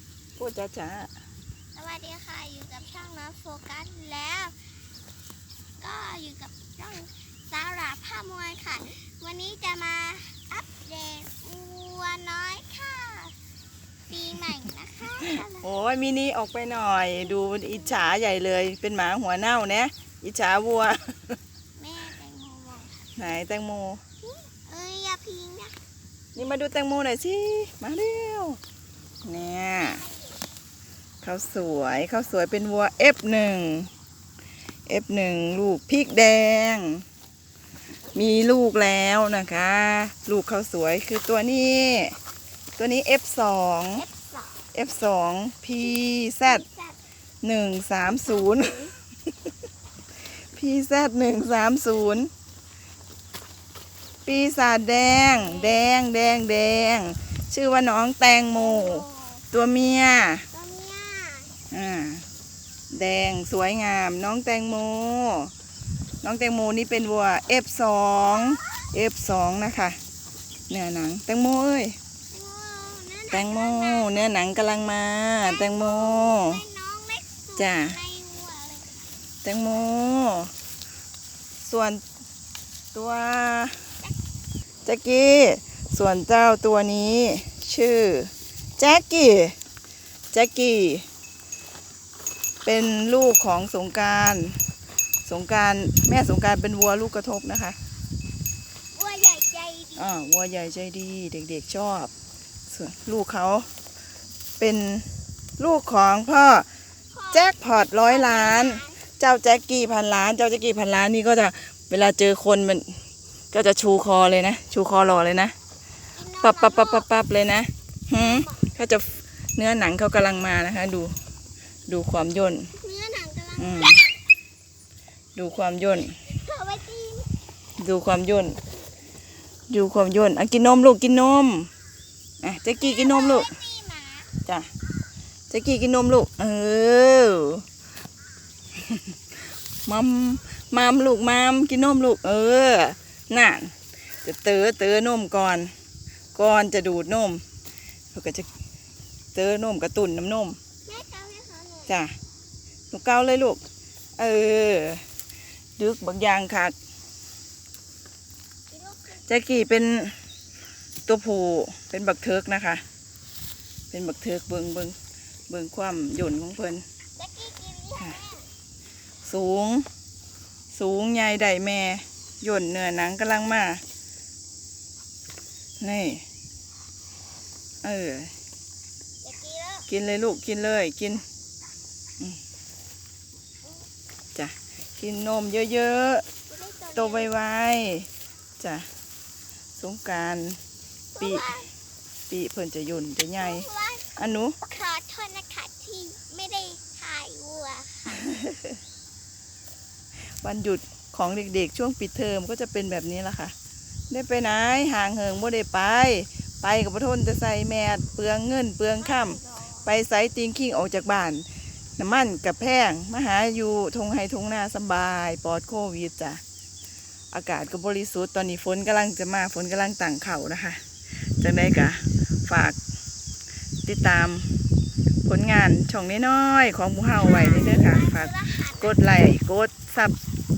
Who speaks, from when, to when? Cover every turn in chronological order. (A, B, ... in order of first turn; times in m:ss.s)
0:00.4-0:01.1 A
0:01.8-0:04.6 B
0:05.8-0:13.3 B
0:14.1-0:15.7 B
0:15.2-0:21.4 A
0:17.2-0:18.1 B
0:21.8-0:23.1 B
0:23.2-0:24.0 A
0:24.3-0:25.8 B
0:26.4-0:28.6 A
0:29.2-0:30.0 A
0:29.8-0:30.3 B
0:31.2-0:33.9 A
0:34.9-0:37.0 A
0:38.1-0:42.2 A
0:42.8-0:44.0 A
0:44.0-0:44.6 B
0:44.7-0:46.6 A
0:46.4-0:47.0 B
0:47.4-0:48.8 A
0:48.0-0:49.0 B
0:50.5-0:52.3 A
0:54.3-1:00.5 A
0:55.2-0:55.8 B
0:58.6-0:59.4 B
1:00.5-1:01.5 B
1:01.7-1:02.2 A
1:02.9-1:05.5 A
1:06.2-1:10.0 A
1:10.7-1:12.0 A
1:12.3-1:14.2 B
1:13.3-1:16.6 A
1:15.4-1:18.9 B
1:17.6-1:18.0 A
1:19.4-1:20.5 A
1:21.6-1:22.0 A
1:22.9-1:23.8 A
1:24.8-1:29.6 A
1:30.3-1:31.0 A
1:32.6-1:34.6 A
1:35.3-1:37.8 A
1:39.0-1:40.2 B
1:40.0-1:42.1 A
1:42.7-1:43.7 A
1:44.6-1:45.1 A
1:45.6-1:46.7 A
1:47.1-1:49.0 B
1:47.3-1:52.9 A
1:53.5-1:55.5 A
1:56.2-1:57.1 B
1:56.4-2:01.2 A
1:58.1-1:58.7 B
2:01.9-2:02.7 A
2:02.7-2:04.0 B
2:03.6-2:04.0 A
2:05.4-2:06.2 A
2:06.1-2:07.3 B
2:07.8-2:08.6 A
2:09.7-2:11.7 A
2:12.4-2:13.5 A
2:12.7-2:14.3 B
2:15.5-2:17.6 A
2:18.8-2:19.0 A
2:19.9-2:25.7 A
2:26.4-2:27.4 A
2:28.1-2:28.5 A
2:29.4-2:30.6 A
2:30.9-2:32.0 B
2:31.9-2:32.1 A
2:32.9-2:33.6 A
2:34.2-2:35.0 A
2:35.8-2:36.8 A
2:38.7-2:39.3 B
2:39.3-2:40.2 A
2:41.1-2:42.8 A
2:43.9-2:45.0 A
2:45.5-2:46.8 A
2:47.2-2:48.5 B
2:49.2-2:49.9 A
2:50.7-2:53.8 A
2:55.8-2:56.2 A
2:57.8-2:58.3 A
2:59.2-2:59.9 B
2:59.9-3:01.2 A
3:04.4-3:06.2 A
3:06.5-3:07.3 B
3:07.0-3:08.1 A
3:08.6-3:08.9 A
3:09.8-3:10.6 A
3:11.1-3:11.7 B
3:12.3-3:14.6 A
3:13.4-3:14.1 B
3:14.7-3:18.3 B
3:18.1-3:18.7 A
3:20.4-3:23.5 A
3:24.1-3:31.5 A
3:29.0-3:29.9 B
3:32.0-3:36.4 A
3:37.3-3:40.8 A
3:41.4-3:42.8 A
3:43.8-3:44.5 A
3:45.2-3:50.2 A
3:47.1-3:49.0 B